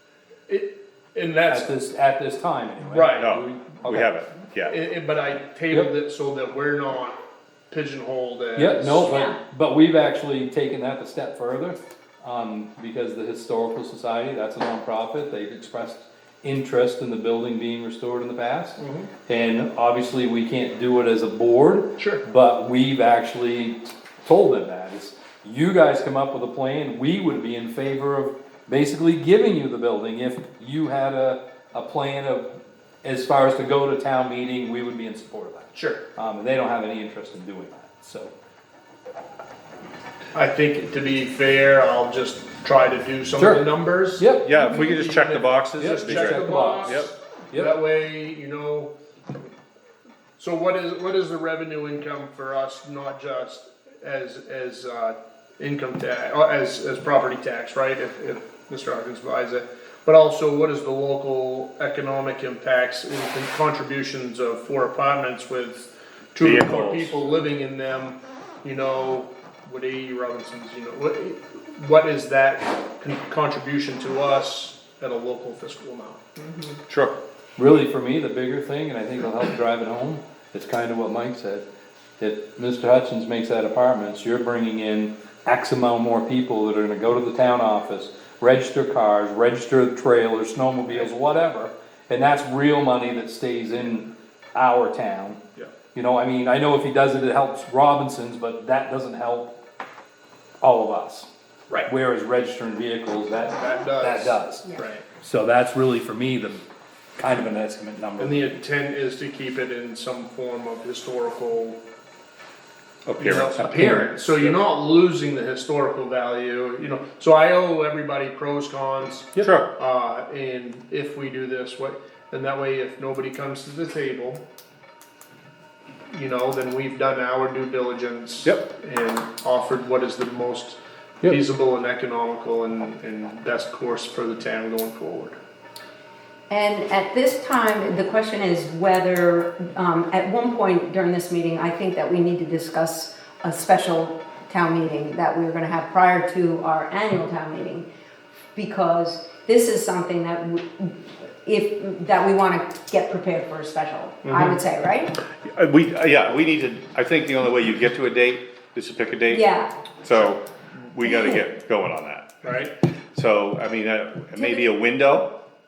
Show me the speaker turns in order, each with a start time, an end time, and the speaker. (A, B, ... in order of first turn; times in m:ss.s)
0:00.5-0:01.7 A
0:01.5-0:04.1 B
0:02.8-0:03.4 A
0:03.1-0:04.8 C
0:04.7-0:07.2 A
0:07.7-0:09.1 A
0:08.6-0:32.5 B
0:09.0-0:09.4 D
0:18.8-0:19.1 A
0:22.0-0:22.2 A
0:33.0-0:38.3 B
0:35.7-0:36.0 A
0:40.3-0:48.9 A
0:43.4-0:43.6 B
0:44.2-0:44.6 B
0:44.4-0:47.1 C
0:45.8-0:47.7 B
0:50.4-1:16.8 A
1:06.4-1:07.2 C
1:16.9-1:17.2 C
1:17.6-1:21.6 B
1:22.2-1:35.4 B
1:35.9-1:39.6 B
1:40.6-1:41.3 B
1:41.9-1:44.6 B
1:43.4-1:45.1 A
1:45.2-1:46.6 B
1:47.2-1:48.6 B
1:48.2-1:51.8 A
1:53.1-1:54.5 C
1:53.2-2:04.4 A
1:53.8-1:54.0 B
1:59.4-1:59.7 C
2:06.1-2:15.4 A
2:16.5-2:27.9 D
2:28.5-2:35.2 D
2:34.2-2:34.6 A
2:35.4-2:39.5 C
2:39.3-2:39.7 D
2:40.0-2:42.4 C
2:41.0-2:41.4 D
2:42.4-2:42.7 A
2:43.1-2:45.3 C
2:44.4-2:44.7 D